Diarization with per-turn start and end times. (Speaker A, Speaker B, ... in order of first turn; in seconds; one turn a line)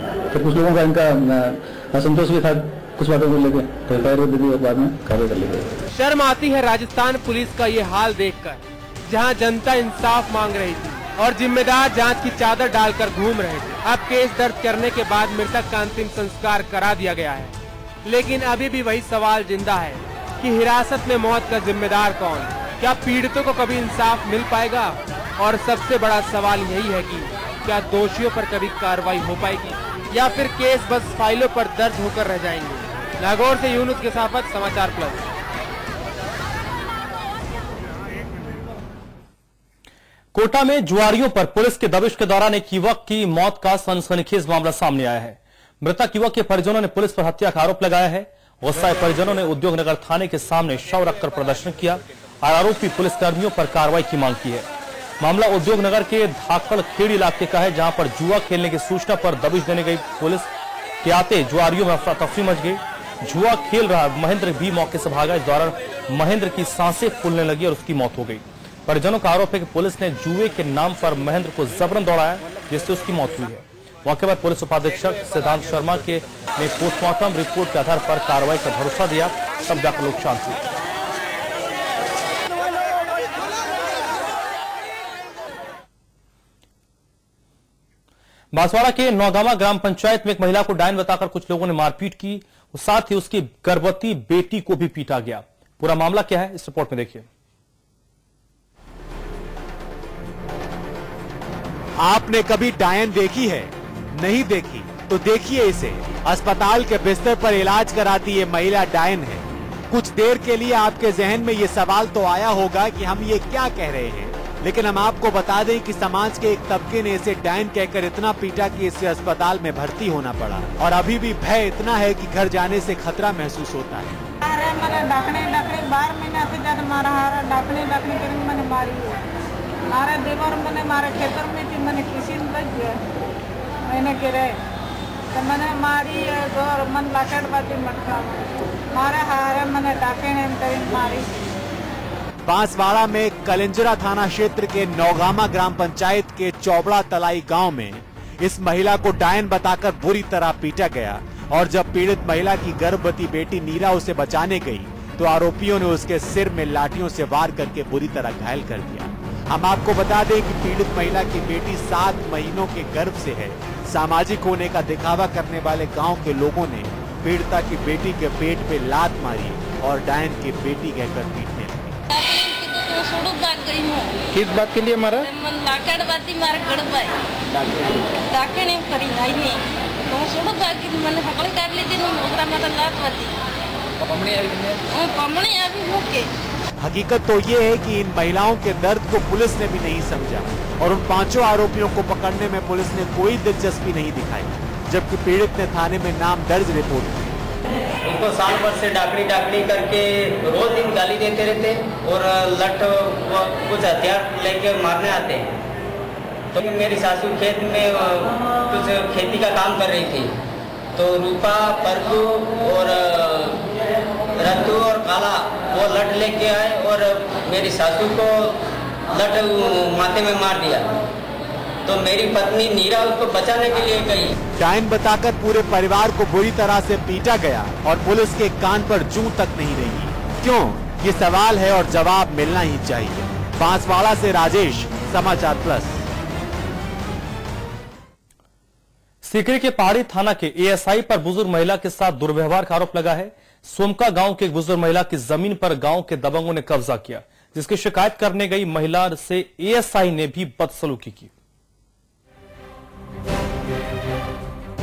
Speaker A: 0.3-5.8
Speaker B: 5.9-35.3
Speaker C: 40.3-54.7
Speaker C: 55.2-60.5
Speaker C: 61.0-80.6
Speaker C: 88.5-97.2
Speaker D: 102.0-124.2
Speaker E: 124.4-129.2
Speaker E: 129.9-133.0
Speaker E: 133.9-134.6
Speaker E: 135.3-141.3
Speaker D: 142.4-172.0
Speaker F: 172.1-174.2
Speaker F: 175.1-177.2
Speaker F: 178.3-183.3
Speaker F: 184.9-186.3
Speaker D: 186.8-197.3
Speaker G: 198.0-205.5
Speaker G: 206.5-210.3
Speaker G: 210.9-213.7
Speaker G: 214.4-221.0
Speaker G: 221.8-224.3
Speaker D: 224.6-236.1
Speaker C: 239.2-251.3